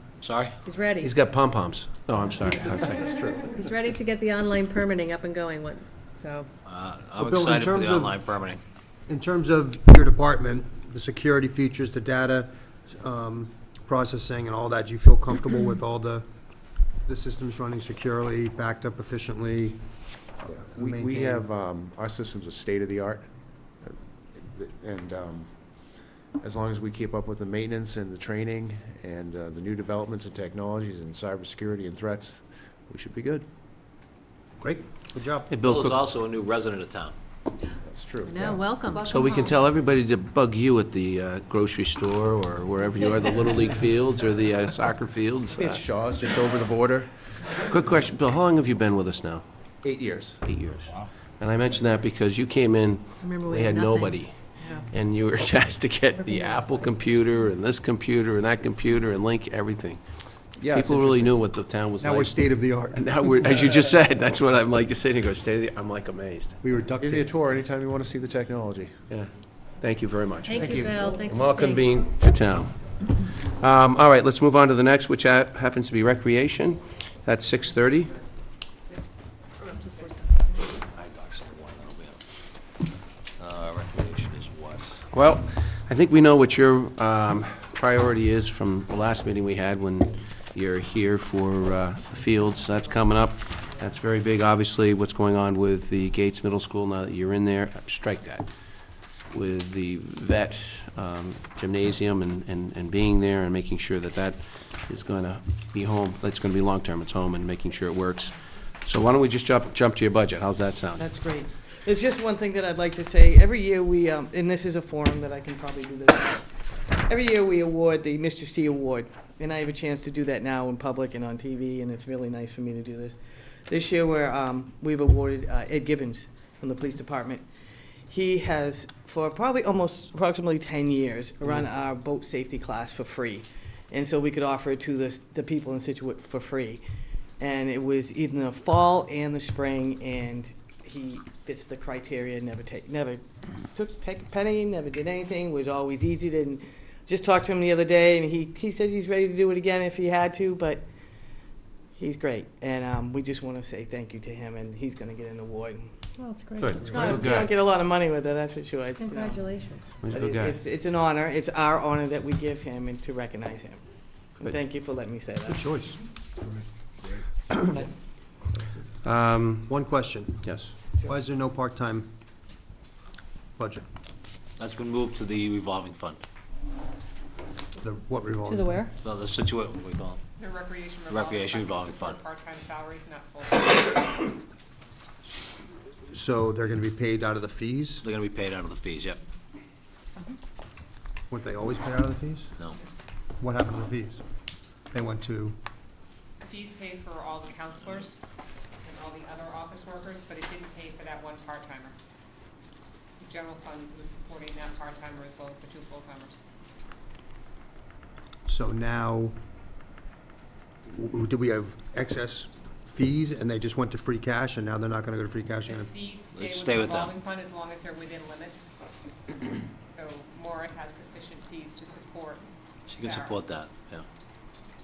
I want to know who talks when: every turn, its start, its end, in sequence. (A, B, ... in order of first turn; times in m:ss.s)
0:00.2-0:00.6 A
0:00.6-0:01.1 B
0:01.0-0:03.2 C
0:03.1-0:03.4 D
0:03.2-0:06.5 B
0:06.6-0:08.6 A
0:07.2-0:08.2 E
0:09.1-0:16.2 E
0:17.0-0:19.8 E
0:20.4-0:23.3 D
0:20.5-0:21.5 E
0:23.8-0:25.5 D
0:26.4-0:33.4 D
0:34.6-0:35.5 E
0:35.5-0:36.0 C
0:35.6-0:37.1 A
0:37.8-0:38.6 D
0:38.2-0:39.6 B
0:39.0-0:45.8 C
0:45.6-0:47.6 D
0:47.6-0:49.4 C
0:49.8-0:50.4 D
0:50.4-1:00.0 C
0:53.2-0:54.8 B
0:56.2-0:57.0 B
1:00.6-1:01.3 D
1:00.6-1:06.6 C
1:02.0-1:03.5 E
1:06.6-1:07.3 E
1:07.0-1:08.9 D
1:09.1-1:18.1 C
1:10.4-1:11.9 B
1:10.6-1:11.2 D
1:20.9-1:22.2 A
1:23.4-1:25.0 A
1:25.1-1:38.5 C
1:39.3-1:51.0 C
1:50.9-2:07.4 F
2:08.1-2:16.8 F
2:17.4-2:30.8 F
2:32.0-2:35.9 F
2:36.2-2:36.9 B
2:36.6-2:37.5 C
2:36.8-2:39.4 F
2:39.0-2:40.0 B
2:40.0-2:40.6 C
2:40.1-2:43.8 F
2:44.4-2:45.6 F
2:45.5-2:46.0 E
2:49.0-2:49.7 C
2:49.7-2:50.4 E
2:50.4-2:50.7 C
2:51.0-2:52.1 E
2:53.6-2:53.8 E
2:54.6-2:56.2 A
2:57.8-2:58.8 E
2:58.4-2:58.9 B
2:59.0-3:00.2 A
3:00.4-3:04.3 G
3:01.1-3:02.2 A
3:06.1-3:08.0 E
3:08.0-3:09.2 A
3:11.3-3:12.5 E
3:13.4-3:14.2 E
3:14.9-3:15.6 E
3:16.4-3:18.2 G
3:18.8-3:21.9 G
3:23.2-3:26.4 G
3:28.5-3:29.3 E
3:30.9-3:35.9 E
3:35.6-3:38.7 G
3:36.3-3:37.2 A
3:39.9-3:43.4 G
3:42.9-3:44.0 A